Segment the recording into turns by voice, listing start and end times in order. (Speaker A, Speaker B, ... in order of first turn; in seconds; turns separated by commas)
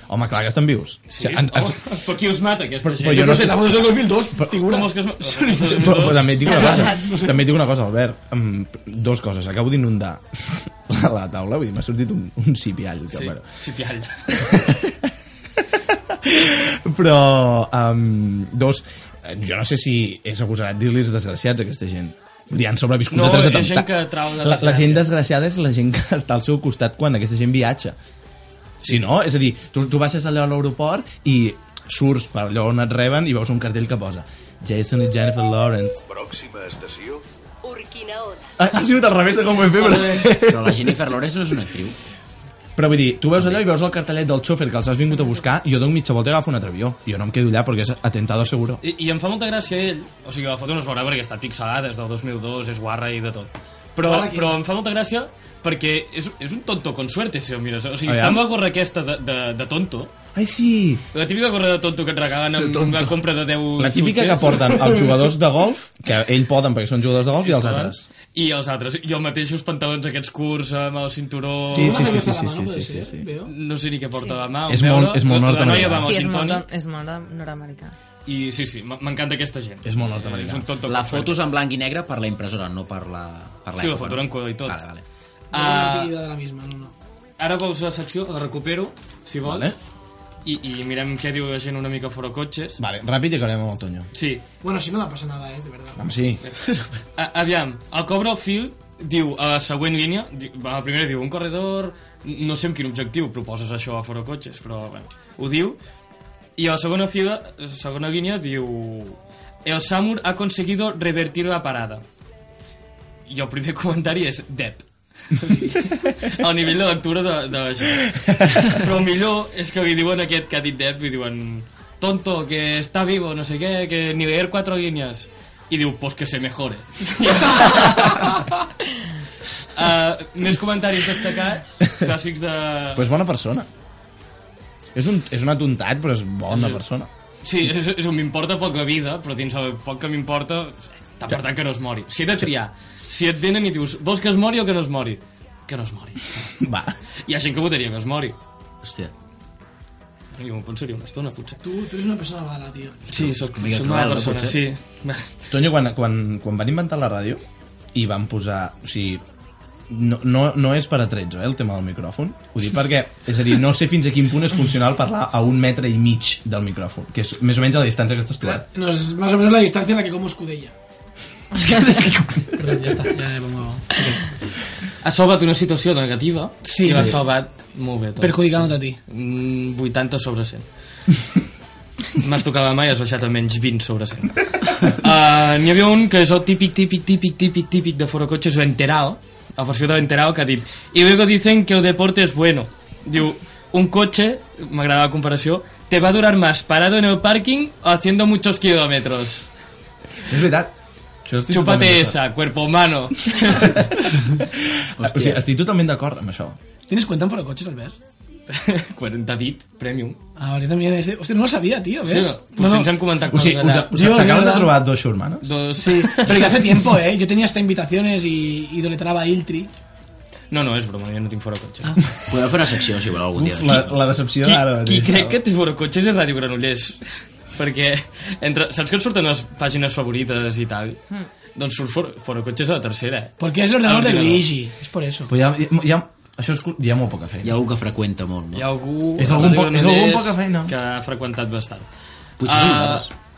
Speaker A: 0.1-1.8, Speaker B: 1.1-3.5, Speaker A: 2.8-4.5, Speaker C: 3.1-7.4, Speaker B: 4.6-6.3, Speaker A: 5.6-13.4, Speaker D: 6.6-6.9, Speaker B: 13.1-14.5, Speaker A: 14.3-15.1, Speaker A: 15.9-28.0, Speaker B: 23.1-25.1, Speaker A: 28.8-36.0, Speaker E: 36.1-38.3, Speaker A: 38.6-40.9, Speaker B: 39.7-40.4, Speaker F: 40.4-42.0, Speaker A: 42.8-48.8, Speaker F: 43.4-43.6, Speaker B: 48.8-60.1, Speaker C: 54.0-54.6, Speaker A: 58.1-58.5, Speaker A: 60.4-61.0, Speaker B: 61.1-65.0, Speaker A: 62.6-63.1, Speaker A: 63.8-68.1, Speaker B: 67.4-72.2, Speaker A: 71.7-73.3, Speaker C: 71.7-73.5, Speaker B: 73.5-76.7, Speaker D: 74.1-74.4, Speaker A: 74.7-76.1, Speaker D: 75.8-78.0, Speaker B: 78.3-81.4, Speaker A: 79.8-80.7, Speaker F: 80.9-85.0, Speaker B: 83.8-84.8, Speaker B: 85.5-86.2, Speaker C: 85.5-86.9, Speaker B: 87.4-89.7, Speaker A: 89.4-89.8, Speaker B: 90.4-92.8, Speaker A: 92.8-94.1, Speaker B: 94.1-94.4, Speaker C: 94.6-96.0, Speaker A: 96.0-96.4, Speaker B: 97.2-105.8, Speaker B: 106.6-112.0, Speaker B: 113.3-128.4, Speaker A: 118.2-118.6, Speaker B: 129.7-133.0, Speaker A: 132.9-133.7, Speaker A: 134.9-137.1, Speaker B: 136.5-136.8, Speaker B: 137.4-146.5, Speaker A: 146.6-146.9, Speaker B: 147.3-148.4, Speaker F: 148.8-149.1, Speaker B: 150.3-151.6, Speaker C: 151.6-153.1, Speaker B: 153.1-155.3, Speaker F: 153.2-154.6, Speaker A: 155.5-157.4, Speaker A: 157.9-159.2, Speaker A: 159.9-168.6, Speaker C: 168.6-170.7, Speaker C: 171.5-174.4, Speaker B: 175.0-180.7, Speaker C: 176.7-177.2, Speaker C: 178.2-179.0, Speaker B: 182.2-199.4, Speaker A: 200.3-200.7, Speaker A: 201.2-202.2, Speaker B: 201.5-203.9, Speaker A: 204.5-206.6, Speaker F: 205.0-205.4, Speaker C: 206.9-208.0, Speaker B: 208.5-210.2, Speaker C: 210.4-212.9, Speaker B: 212.1-214.3, Speaker A: 213.3-215.5, Speaker C: 213.9-214.8, Speaker B: 215.4-216.8, Speaker C: 215.8-219.7, Speaker B: 220.5-221.9, Speaker F: 222.3-224.0, Speaker A: 223.3-225.4, Speaker B: 224.4-231.0, Speaker B: 231.6-234.5, Speaker C: 233.4-235.3, Speaker A: 235.3-237.5, Speaker F: 237.4-238.7, Speaker B: 238.5-241.9, Speaker A: 239.2-240.8, Speaker F: 242.4-243.1, Speaker B: 242.4-243.1